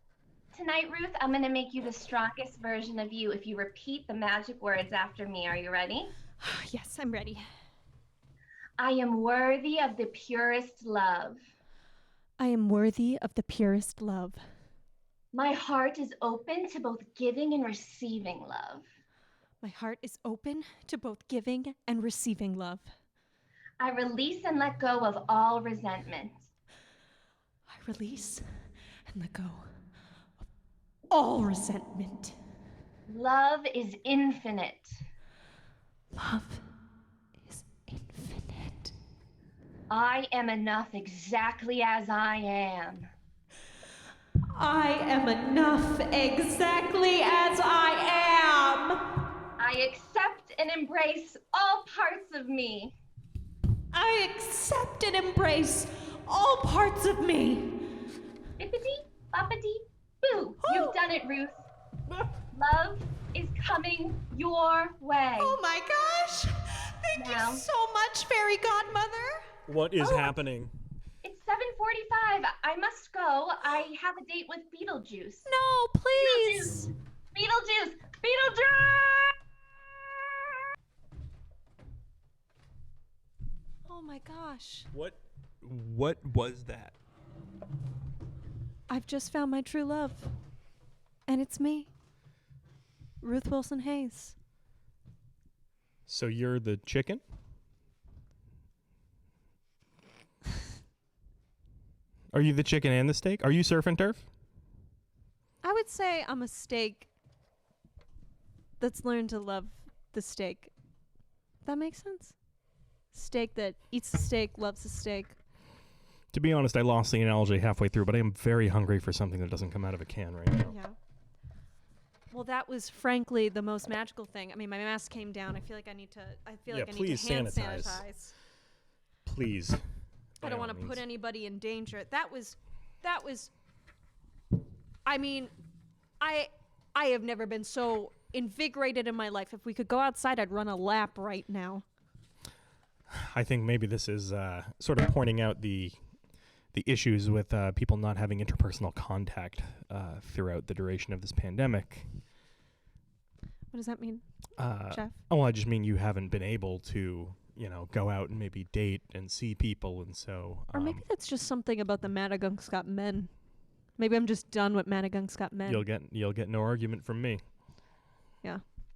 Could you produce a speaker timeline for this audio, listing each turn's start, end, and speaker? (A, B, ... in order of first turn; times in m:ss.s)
0:00.5-0:06.1 A
0:06.4-0:07.5 B
0:08.8-0:11.4 A
0:12.4-0:14.4 B
0:15.3-0:18.9 A
0:19.6-0:22.9 B
0:23.8-0:26.4 A
0:27.7-0:28.4 B
0:29.1-0:29.7 B
0:31.1-0:32.4 B
0:33.1-0:34.9 A
0:36.1-0:36.6 B
0:37.5-0:38.9 B
0:39.9-0:43.1 A
0:44.6-0:49.0 B
0:49.6-0:53.0 A
0:53.9-0:57.8 B
0:58.6-1:01.6 A
1:00.6-1:01.0 B
1:02.5-1:05.6 A
1:05.4-1:09.4 B
1:07.2-1:07.6 A
1:09.7-1:10.7 C
1:10.0-1:10.3 A
1:11.2-1:15.5 A
1:15.5-1:16.8 B
1:16.1-1:19.4 A
1:23.9-1:24.9 B
1:24.9-1:27.0 C
1:28.9-1:30.3 B
1:31.3-1:31.9 B
1:33.2-1:34.3 B
1:36.1-1:37.2 C
1:42.3-1:44.3 C
1:45.6-1:47.1 B
1:48.8-1:50.7 B
1:51.6-1:52.4 B
1:53.1-1:55.4 B
1:56.3-2:00.8 C
2:00.6-2:01.0 B
2:02.3-2:08.3 B
2:06.7-2:08.0 C
2:09.3-2:09.8 C
2:10.4-2:11.0 C
2:10.4-2:13.5 B
2:15.1-2:15.5 B
2:16.2-2:21.8 B
2:23.1-2:26.0 C
2:26.7-2:32.1 C
2:33.7-2:34.2 B
2:34.6-2:41.0 C
2:34.8-2:35.2 B
2:40.7-2:43.3 B
2:44.0-2:45.9 B
2:45.7-2:47.4 C